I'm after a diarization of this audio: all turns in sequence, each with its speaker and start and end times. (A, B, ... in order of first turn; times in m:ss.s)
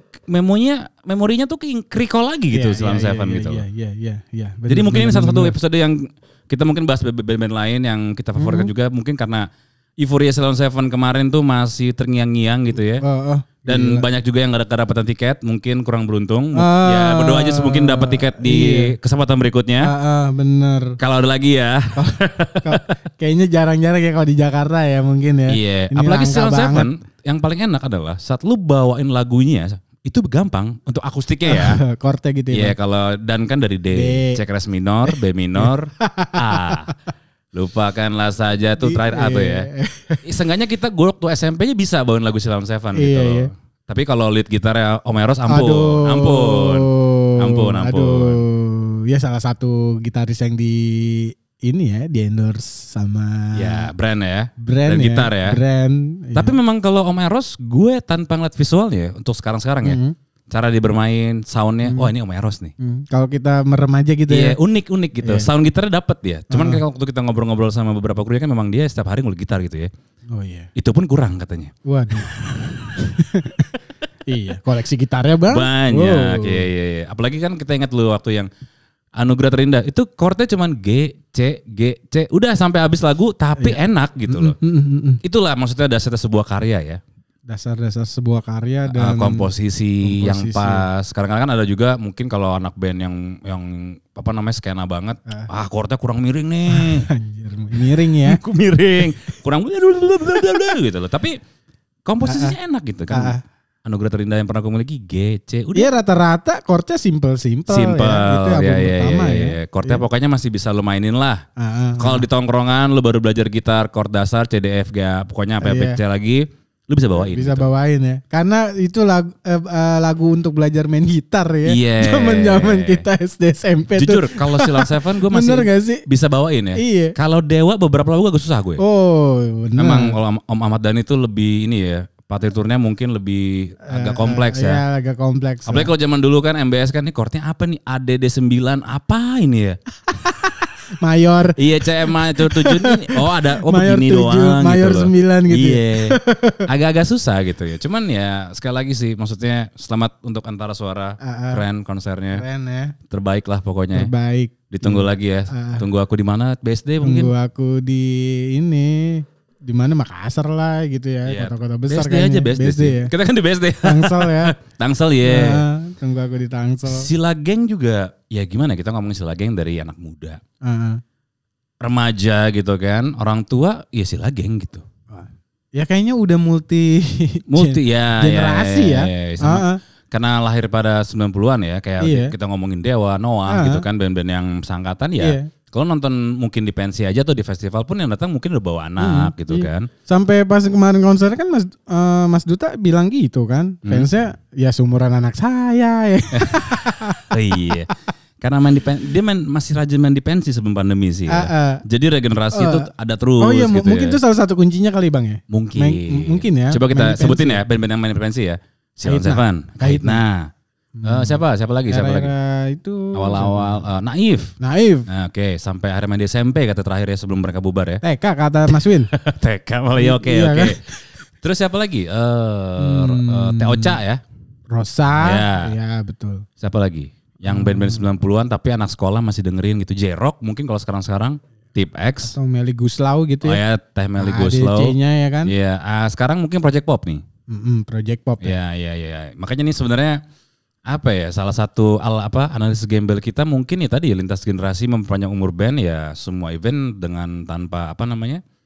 0:00.3-0:03.6 A
0:02.5-0:05.6 B
0:04.7-0:09.5 A
0:08.4-0:08.7 B
0:10.0-0:13.0 A
0:13.0-0:14.0 B
0:13.7-0:19.9 A
0:16.5-0:18.9 B
0:19.8-0:21.0 B
0:21.0-0:22.9 A
0:22.0-0:26.9 B
0:25.5-0:31.8 A
0:31.4-0:32.7 B
0:32.5-0:36.9 A
0:33.9-0:34.4 B
0:35.1-0:36.9 B
0:37.5-0:39.7 A
0:38.8-0:40.2 B
0:40.2-0:48.4 A
0:42.9-0:43.5 B
0:45.5-0:53.9 B
0:53.5-0:55.6 A
0:54.6-0:56.5 B
0:56.3-1:02.7 A
0:59.8-1:00.1 B
1:01.8-1:02.1 B
1:02.8-1:04.6 B
1:04.3-1:09.9 A
1:05.2-1:05.5 B
1:06.5-1:06.8 B
1:10.3-1:10.7 B
1:10.7-1:13.0 A
1:11.8-1:13.7 B
1:14.3-1:16.6 B
1:15.5-1:18.5 A
1:19.2-1:24.6 A
1:23.6-1:25.2 B
1:25.2-1:27.0 A
1:27.5-1:29.5 B
1:28.9-1:37.1 A
1:30.0-1:30.8 B
1:36.7-1:38.4 B
1:37.7-1:41.4 A
1:42.0-1:45.9 A
1:42.2-1:42.5 B
1:43.1-1:43.4 B
1:45.7-1:50.0 B
1:47.7-1:51.4 A
1:51.6-1:52.2 B
1:52.0-1:57.7 A
1:55.6-1:56.0 B
1:57.1-2:06.0 B
2:01.6-2:03.0 A
2:04.0-2:08.8 A
2:06.8-2:07.1 B
2:08.8-2:10.1 B
2:09.8-2:14.8 A
2:13.8-2:15.9 B
2:15.6-2:19.8 A
2:20.1-2:26.7 B
2:21.6-2:32.4 A
2:31.2-2:31.6 B
2:32.3-2:32.9 B
2:33.1-2:34.1 A
2:33.9-2:35.8 B
2:34.7-2:37.3 A
2:37.0-2:43.1 B
2:41.2-2:45.6 A
2:43.8-2:44.5 B
2:45.2-2:47.1 B
2:46.8-2:50.4 A
2:50.6-2:51.0 B
2:51.8-2:54.8 A
2:55.1-2:59.8 B
2:57.5-3:09.9 A
3:02.0-3:02.3 B
3:03.5-3:03.8 B
3:05.2-3:05.5 B
3:09.0-3:17.9 B
3:16.3-3:24.2 A
3:21.3-3:21.8 B
3:22.5-3:22.9 B
3:23.4-3:27.6 B
3:25.5-3:30.5 A
3:29.0-3:30.2 B
3:31.0-3:33.8 B
3:31.0-3:32.3 A
3:33.1-3:34.5 A
3:34.6-3:35.1 B
3:35.1-3:38.0 A
3:38.0-3:39.1 B
3:38.7-3:40.8 A
3:40.0-3:40.9 B
3:41.4-3:44.2 A
3:42.8-3:44.0 B
3:44.7-3:46.4 B
3:45.2-3:45.7 A
3:46.6-3:52.4 A
3:47.4-3:48.1 B
3:52.2-3:53.6 B
3:53.4-3:54.9 A
3:54.2-3:55.5 B
3:55.4-3:57.2 A
3:57.5-3:58.6 B
3:58.4-4:00.2 A
4:00.9-4:08.4 A